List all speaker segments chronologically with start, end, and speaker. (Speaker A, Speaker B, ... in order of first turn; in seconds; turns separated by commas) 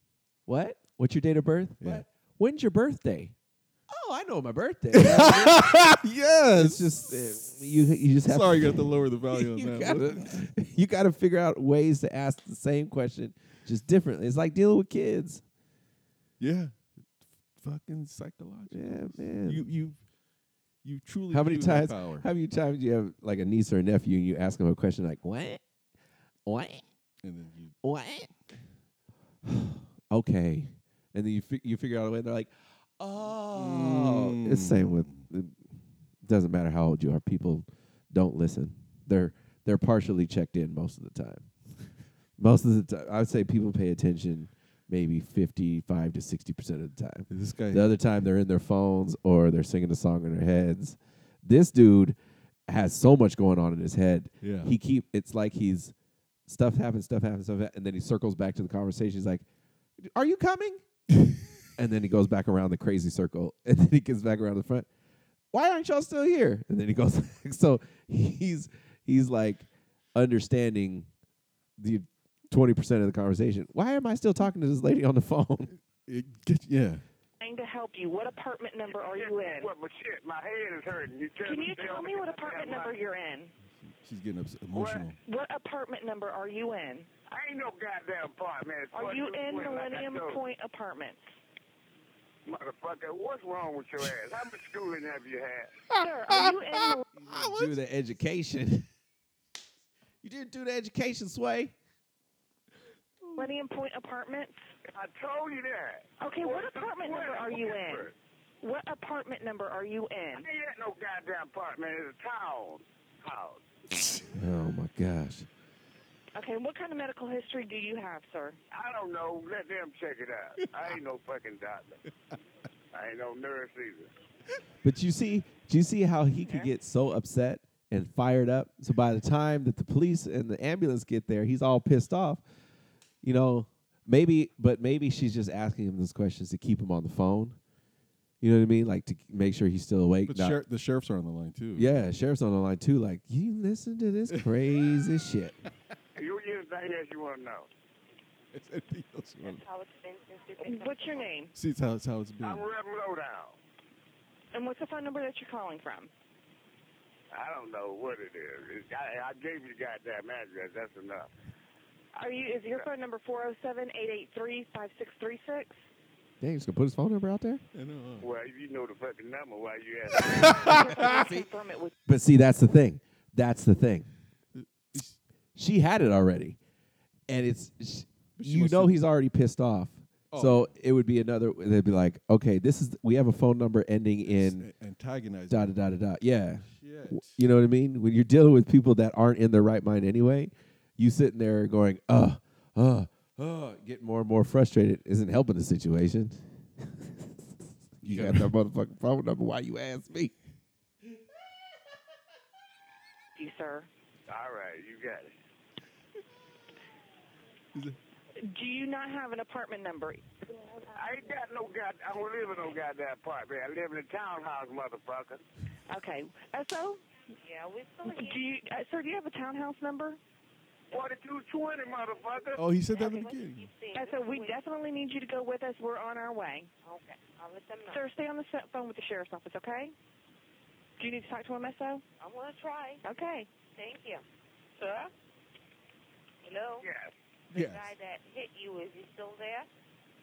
Speaker A: 0.5-3.3, Speaker A: 3.9-6.0, Speaker B: 4.9-7.1, Speaker A: 6.5-15.4, Speaker B: 8.2-10.5, Speaker B: 16.4-16.7, Speaker B: 17.6-20.0, Speaker A: 18.7-19.7, Speaker B: 20.8-22.3, Speaker A: 21.3-25.6, Speaker A: 26.4-26.8, Speaker B: 27.2-27.7, Speaker A: 27.8-28.3, Speaker A: 29.4-35.5, Speaker B: 33.5-35.2, Speaker A: 36.2-41.5, Speaker A: 42.4-52.2, Speaker B: 47.3-48.0, Speaker A: 52.7-55.9, Speaker B: 54.4-54.7, Speaker A: 56.5-59.5, Speaker A: 60.0-60.8, Speaker A: 61.8-64.9, Speaker A: 65.5-71.1, Speaker A: 71.8-75.7, Speaker B: 76.0-77.0, Speaker C: 77.4-79.7, Speaker D: 78.9-83.0, Speaker C: 81.4-83.5, Speaker B: 83.8-85.2, Speaker D: 84.7-85.1, Speaker C: 85.2-87.1, Speaker D: 87.3-90.4, Speaker C: 88.9-91.2, Speaker D: 92.5-95.7, Speaker A: 95.9-98.9, Speaker C: 96.0-97.0, Speaker B: 97.2-97.7, Speaker A: 100.2-101.7, Speaker C: 103.3-104.6, Speaker D: 104.9-108.1, Speaker C: 106.2-108.1, Speaker C: 108.6-110.5, Speaker D: 110.4-113.6, Speaker A: 114.3-115.5, Speaker C: 116.3-118.6, Speaker D: 118.7-122.0, Speaker D: 122.9-124.1, Speaker A: 124.8-132.4, Speaker A: 133.2-137.6, Speaker A: 138.4-140.6, Speaker B: 140.3-142.1, Speaker A: 141.8-145.6, Speaker D: 146.2-147.7, Speaker B: 148.5-149.6, Speaker E: 149.4-151.3, Speaker C: 150.6-151.5, Speaker B: 151.5-152.7, Speaker D: 152.4-153.6, Speaker C: 154.5-156.1, Speaker D: 157.3-161.3, Speaker C: 162.2-165.8, Speaker A: 166.4-167.6, Speaker B: 167.7-168.3, Speaker D: 168.2-171.1, Speaker C: 170.6-171.9, Speaker A: 170.9-171.4, Speaker A: 172.1-174.1, Speaker B: 174.5-175.2, Speaker A: 175.6-176.6, Speaker A: 177.3-184.7, Speaker B: 178.4-179.0, Speaker B: 180.3-180.7, Speaker B: 184.2-185.8, Speaker A: 185.5-197.3, Speaker B: 186.7-187.4, Speaker A: 198.0-200.3, Speaker B: 198.0-198.5, Speaker C: 203.4-203.9, Speaker D: 204.3-205.3, Speaker C: 208.4-210.2, Speaker D: 210.9-215.4, Speaker C: 215.9-217.0, Speaker E: 217.4-218.4, Speaker C: 218.0-220.2, Speaker D: 220.9-222.6, Speaker B: 222.6-223.7, Speaker E: 222.8-224.6, Speaker C: 223.9-226.7, Speaker E: 226.8-228.0, Speaker C: 227.9-229.9, Speaker C: 231.0-232.0, Speaker E: 232.2-233.0, Speaker C: 233.0-233.5, Speaker E: 233.7-234.2, Speaker E: 234.8-235.1, Speaker E: 236.4-236.8, Speaker D: 236.8-237.1, Speaker E: 237.5-239.7, Speaker B: 237.5-237.9